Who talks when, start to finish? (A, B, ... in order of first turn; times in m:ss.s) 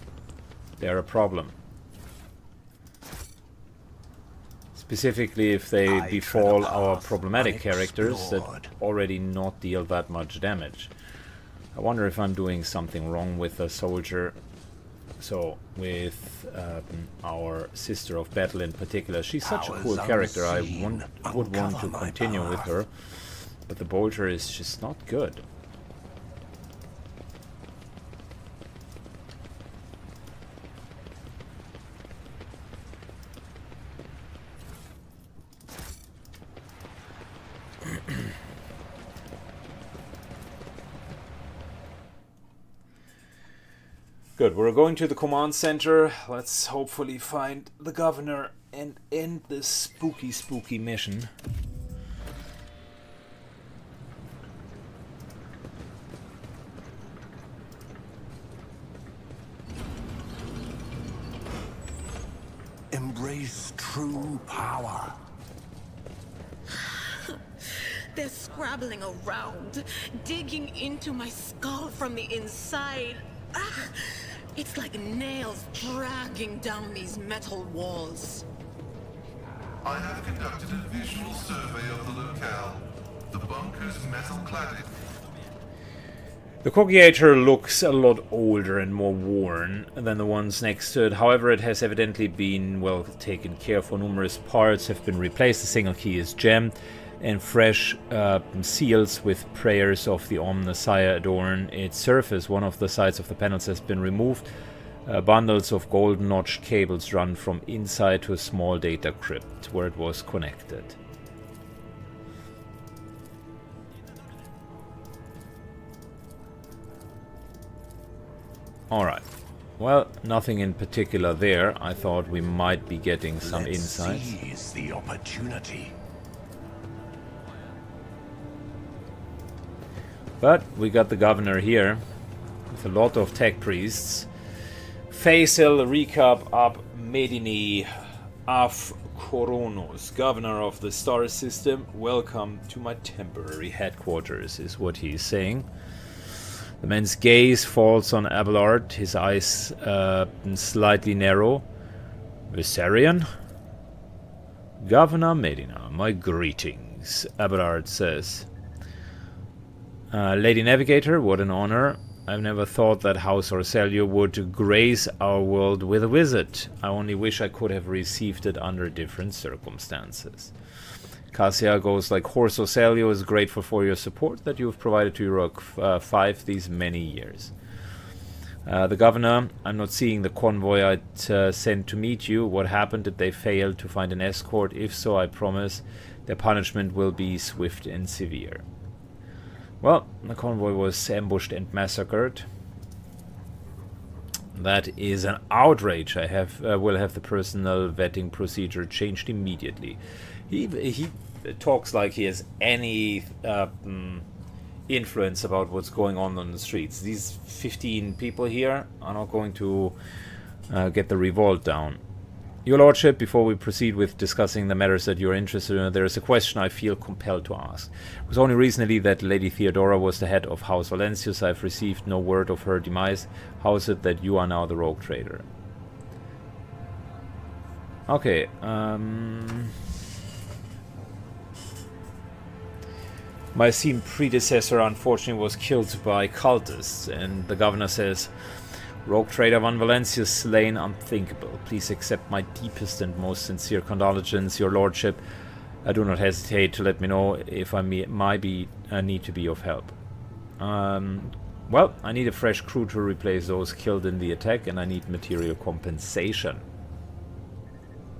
0:00.8-0:01.6 A
0:04.8-0:10.9 A
0:05.8-0:08.7 B
0:11.8-0:14.4 A
0:15.2-0:22.9 A
0:19.4-0:22.7 B
0:23.7-0:25.4 A
0:44.4-0:51.3 A
1:02.9-1:05.2 B
1:06.7-1:18.4 C
1:19.8-1:24.9 D
1:26.6-1:44.5 A
1:45.1-1:51.0 A
1:58.9-1:59.3 A
1:59.8-2:04.3 A
2:03.4-2:06.0 B
2:10.4-2:12.0 A
2:12.7-2:14.3 A
2:15.1-2:17.9 A
2:18.5-2:25.7 A
2:26.8-2:31.6 A
2:32.5-2:33.3 A
2:34.8-2:38.5 A
2:40.1-2:50.5 A
2:51.3-2:57.5 A
2:58.7-3:08.6 A
3:09.8-3:12.5 A
3:14.6-3:24.2 A
3:24.9-3:30.0 A
3:30.7-3:32.0 A
3:32.6-3:45.4 A
3:48.1-3:49.8 A
3:53.5-3:58.3 A
3:59.0-4:05.2 A
4:05.8-4:10.0 A
4:10.6-4:16.6 A